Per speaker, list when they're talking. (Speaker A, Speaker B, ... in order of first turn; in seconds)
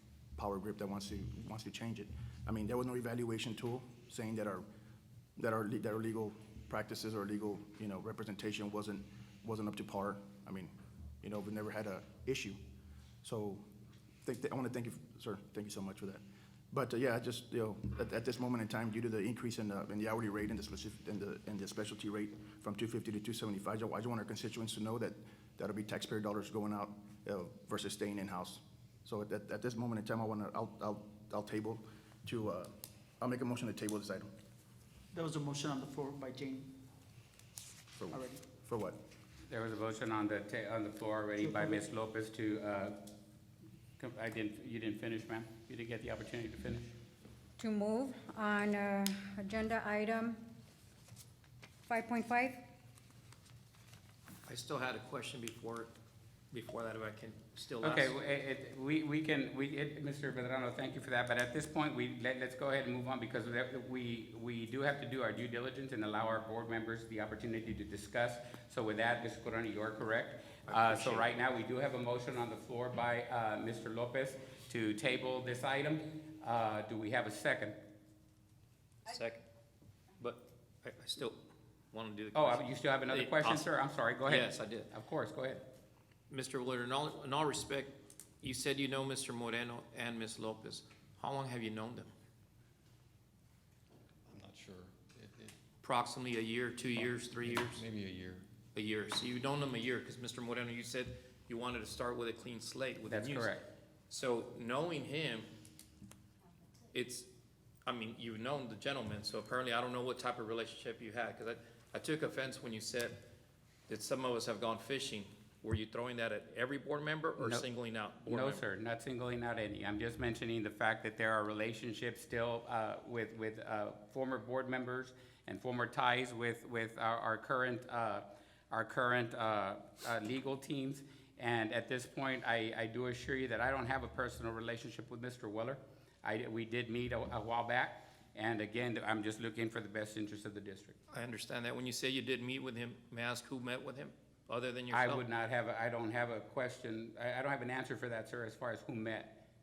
Speaker A: 0.3-4.7, 5.4-12.6, 13.2-13.7, 14.2-34.3, 38.0-39.0
Speaker B: 35.1-36.7, 38.1-38.4, 41.4-41.8
Speaker C: 39.5-43.0, 44.0-46.9, 57.8-77.8, 82.3-85.7, 103.0-103.6, 117.4-117.7, 118.2-141.0, 144.9-149.4
Speaker D: 47.6-50.4, 51.9-52.6
Speaker E: 54.5-55.9, 56.5-58.2, 70.7-71.4, 79.1-79.4, 80.2-81.4, 81.9-83.7, 84.2-84.9, 86.3-92.1, 95.8-97.8, 98.7-103.5, 104.1-105.5, 106.9-107.3, 107.8-113.2, 113.9-118.6, 141.1-145.2
Speaker F: 94.2-95.5, 97.4-98.5